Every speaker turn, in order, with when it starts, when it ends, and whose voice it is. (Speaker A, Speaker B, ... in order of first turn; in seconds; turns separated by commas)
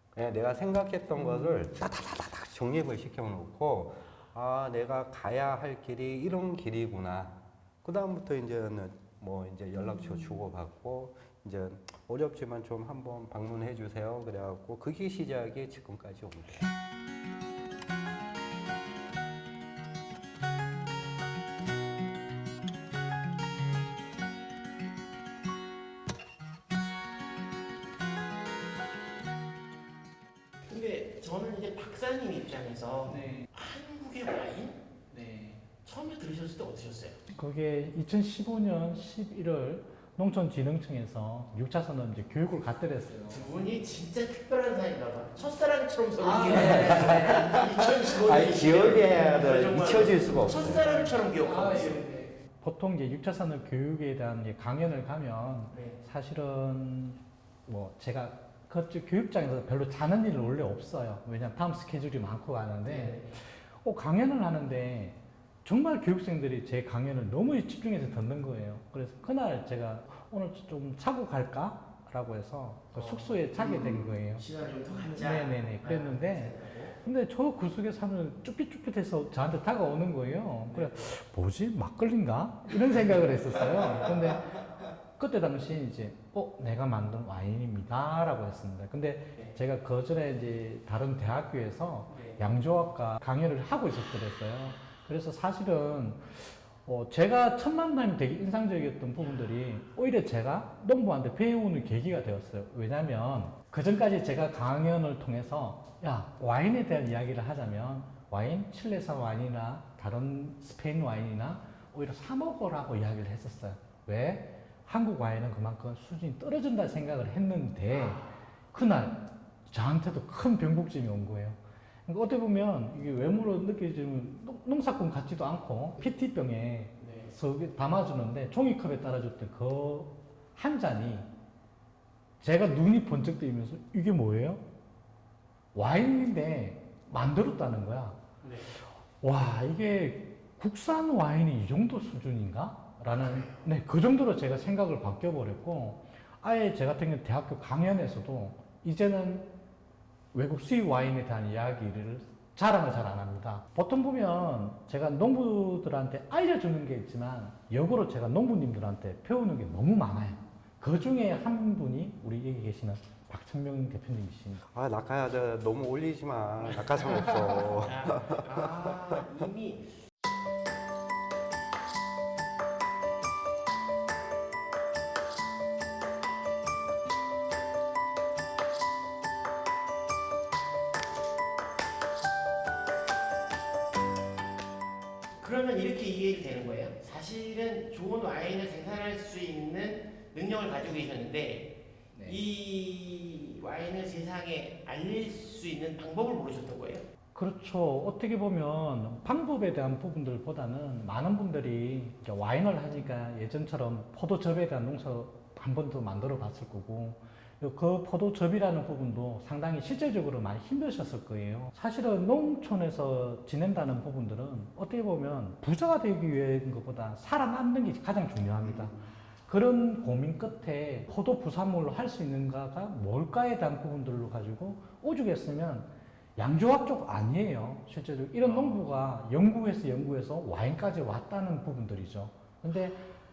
Speaker A: 0.1-16.7, Speaker B: 30.7-34.8, Speaker C: 33.0-33.5, Speaker C: 35.1-35.6, Speaker B: 35.8-37.2, Speaker C: 37.3-43.4, Speaker B: 43.3-52.0, Speaker C: 46.2-47.5, Speaker A: 46.5-50.9, Speaker C: 51.1-74.5, Speaker B: 55.7-56.0, Speaker B: 62.9-63.3, Speaker B: 72.9-77.0, Speaker C: 75.0-84.6, Speaker B: 80.7-81.1, Speaker C: 85.2-131.3, Speaker B: 92.1-92.4, Speaker B: 117.9-118.4, Speaker B: 127.0-127.3, Speaker C: 132.4-134.6, Speaker C: 135.7-149.5, Speaker B: 138.4-138.7, Speaker B: 143.1-143.7, Speaker C: 150.3-164.7, Speaker A: 164.7-169.2, Speaker B: 166.7-169.9, Speaker B: 185.4-191.7, Speaker C: 192.1-192.4, Speaker B: 192.2-197.0, Speaker C: 197.3-233.1, Speaker B: 218.6-219.1, Speaker B: 228.4-228.8